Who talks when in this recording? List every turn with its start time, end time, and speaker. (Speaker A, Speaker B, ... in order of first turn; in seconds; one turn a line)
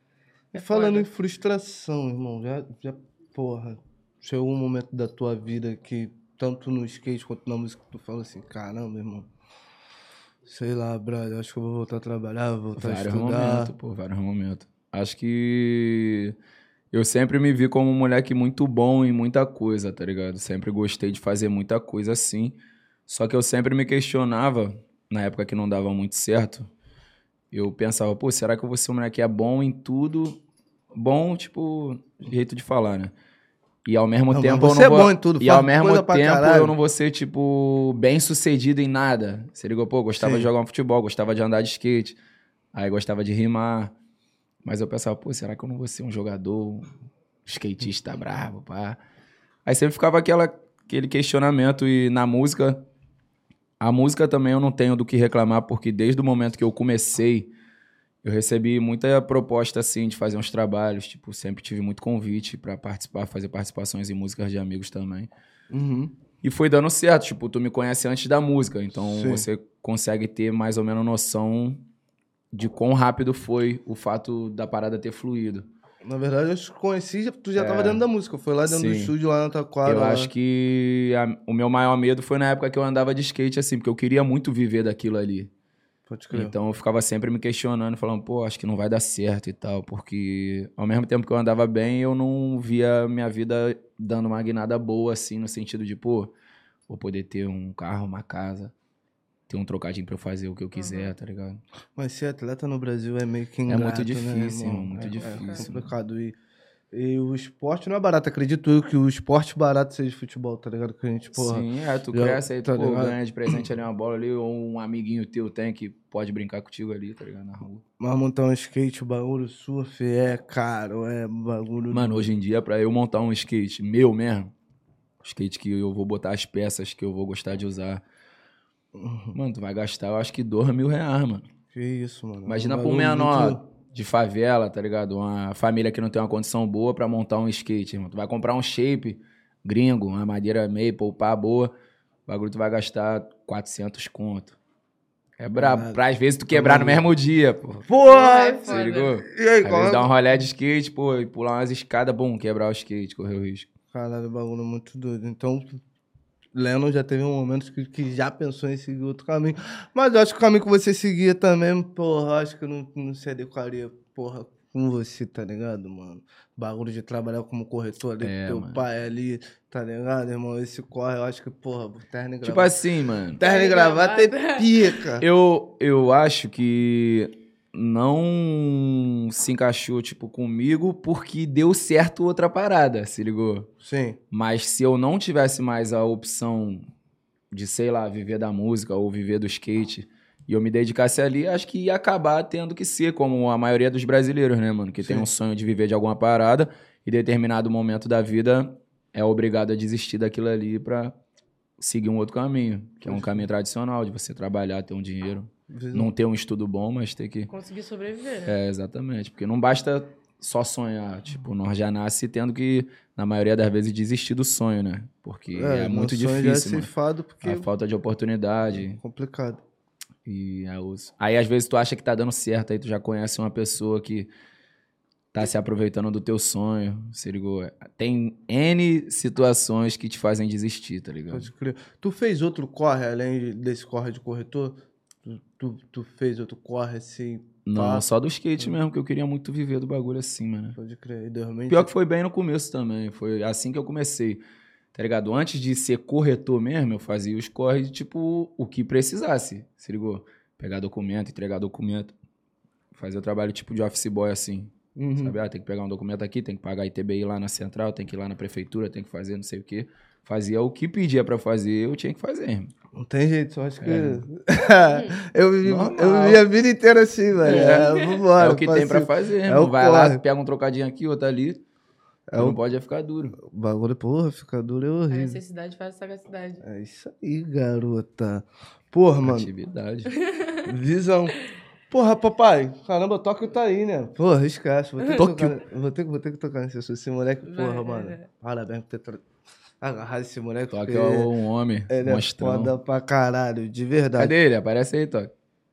Speaker A: 0.5-9.3
Speaker B: 0.5-1.1
Speaker A: 10.4-13.7
Speaker C: 12.8-16.3
Speaker C: 16.9-22.6
Speaker C: 23.1-26.7
Speaker C: 27.5-30.4
Speaker C: 30.9-33.1
Speaker C: 33.8-42.2
Speaker A: 34.3-36.8
Speaker A: 40.2-40.5
Speaker C: 42.7-43.9
Speaker C: 44.6-46.9
Speaker C: 47.5-49.0
Speaker C: 49.6-52.8
Speaker C: 53.8-57.5
Speaker C: 58.2-65.3
Speaker A: 65.7-66.1
Speaker C: 66.4-71.8
Speaker A: 69.0-69.5
Speaker C: 72.5-75.7
Speaker A: 76.0-80.3
Speaker C: 77.5-78.0
Speaker C: 78.7-79.1
Speaker C: 79.8-85.5
Speaker A: 86.1-86.5
Speaker C: 86.3-96.3
Speaker C: 96.9-98.7
Speaker C: 99.5-101.6
Speaker B: 100.8-101.1
Speaker A: 102.0-106.3
Speaker C: 103.7-105.9
Speaker B: 105.2-105.6
Speaker A: 106.9-113.6
Speaker C: 111.3-117.8
Speaker A: 118.0-122.3
Speaker C: 121.9-124.5
Speaker C: 125.2-128.0
Speaker A: 128.9-129.3
Speaker C: 129.3-131.5
Speaker A: 131.7-133.6
Speaker C: 132.4-141.7
Speaker C: 142.3-144.6
Speaker C: 145.4-147.9
Speaker A: 145.5-147.1
Speaker A: 147.9-150.1
Speaker B: 148.1-149.1
Speaker C: 148.7-153.7
Speaker A: 153.9-155.8
Speaker A: 156.5-172.7
Speaker C: 168.2-168.8
Speaker C: 172.4-173.4
Speaker A: 173.4-175.2
Speaker B: 173.4-175.0
Speaker C: 175.2-183.7
Speaker A: 183.8-184.2
Speaker C: 184.3-186.8
Speaker C: 187.5-201.1
Speaker A: 195.0-195.3
Speaker C: 201.8-207.5
Speaker A: 203.0-203.4
Speaker A: 205.7-206.1
Speaker B: 207.5-208.5
Speaker C: 208.4-216.9
Speaker A: 215.5-217.7
Speaker C: 217.4-219.0
Speaker A: 218.7-219.6
Speaker C: 220.2-224.3
Speaker C: 225.3-231.5
Speaker A: 231.3-238.1
Speaker C: 237.6-240.8
Speaker A: 240.8-241.9
Speaker C: 241.7-244.4
Speaker C: 244.9-252.1
Speaker C: 252.9-262.7
Speaker A: 254.9-255.4
Speaker A: 262.9-270.2
Speaker C: 263.8-264.2
Speaker B: 264.9-265.2
Speaker C: 265.6-266.4
Speaker C: 267.4-271.6
Speaker B: 267.7-268.2
Speaker A: 272.3-272.6
Speaker C: 272.4-273.4
Speaker A: 273.4-275.4
Speaker B: 275.1-276.6
Speaker A: 276.6-279.5
Speaker C: 279.2-280.1
Speaker B: 280.2-280.6
Speaker A: 280.6-281.4
Speaker A: 281.9-289.2
Speaker B: 285.0-285.5
Speaker B: 287.5-288.2
Speaker A: 289.8-291.3
Speaker C: 290.7-292.7
Speaker A: 291.9-294.3
Speaker C: 294.2-295.3